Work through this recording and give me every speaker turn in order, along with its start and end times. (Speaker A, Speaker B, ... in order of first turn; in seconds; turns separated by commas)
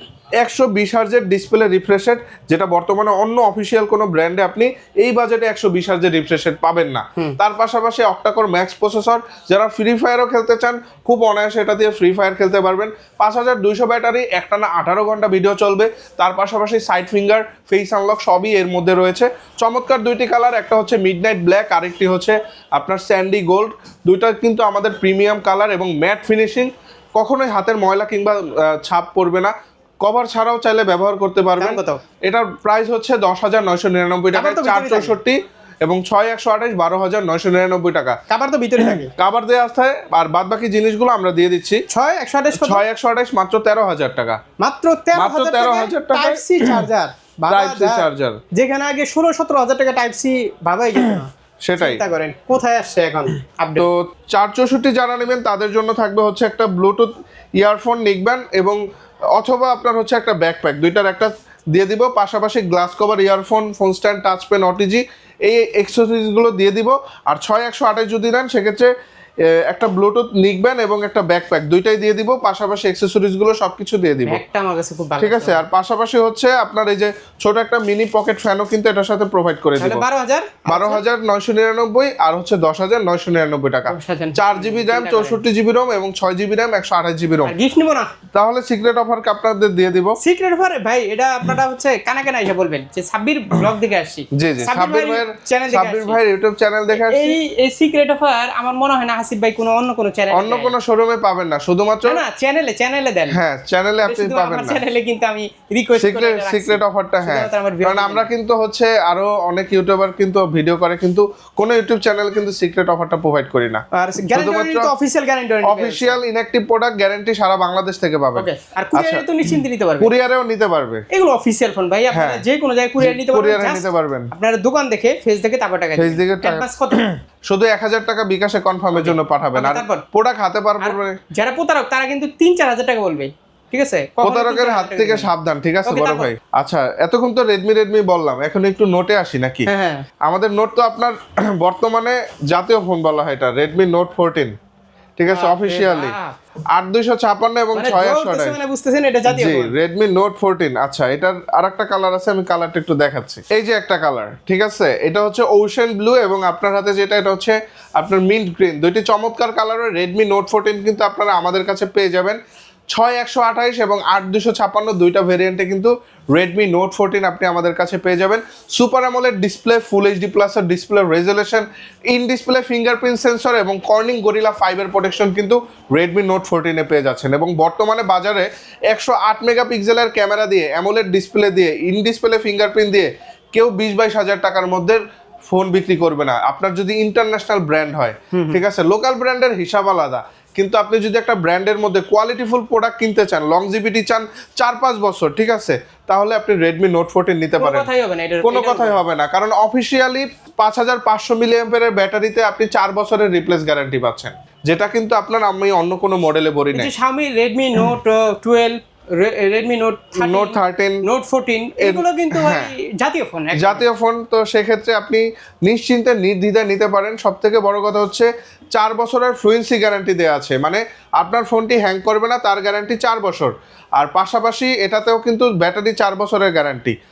Speaker A: 0.4-38.2, Speaker B: 31.6-32.0, Speaker B: 34.3-35.2, Speaker B: 38.3-39.1, Speaker A: 39.1-41.8, Speaker B: 41.9-42.8, Speaker A: 42.5-44.4, Speaker B: 44.6-53.9, Speaker A: 45.1-46.8, Speaker A: 47.5-48.4, Speaker A: 51.6-52.0, Speaker A: 53.8-58.8, Speaker A: 59.4-68.9, Speaker A: 69.7-74.4, Speaker B: 74.3-75.6, Speaker A: 75.2-80.0, Speaker B: 79.8-81.0, Speaker A: 80.7-87.5, Speaker B: 83.9-85.4, Speaker B: 87.5-88.1, Speaker A: 88.3-90.2, Speaker B: 90.2-96.2, Speaker A: 94.4-97.4, Speaker B: 96.9-100.8, Speaker A: 100.3-102.2, Speaker B: 102.1-103.4, Speaker A: 103.3-104.8, Speaker B: 104.0-108.3, Speaker A: 106.0-113.8, Speaker B: 113.9-116.2, Speaker A: 114.3-114.9, Speaker A: 115.6-121.0, Speaker B: 118.4-120.1, Speaker B: 121.1-127.0, Speaker A: 122.1-122.4, Speaker A: 123.0-124.3, Speaker A: 126.0-131.2, Speaker B: 128.9-130.0, Speaker B: 130.8-135.3, Speaker A: 134.2-139.7, Speaker B: 135.9-136.3, Speaker B: 139.7-140.1, Speaker A: 140.2-144.5, Speaker A: 145.2-146.2, Speaker B: 145.3-146.3, Speaker A: 146.7-148.6, Speaker B: 147.8-149.7, Speaker A: 149.3-162.4, Speaker A: 162.9-197.9, Speaker B: 188.3-188.6, Speaker B: 197.6-199.0, Speaker A: 198.4-206.9, Speaker B: 206.7-213.8, Speaker A: 210.2-211.0, Speaker A: 211.8-212.7, Speaker A: 213.6-226.9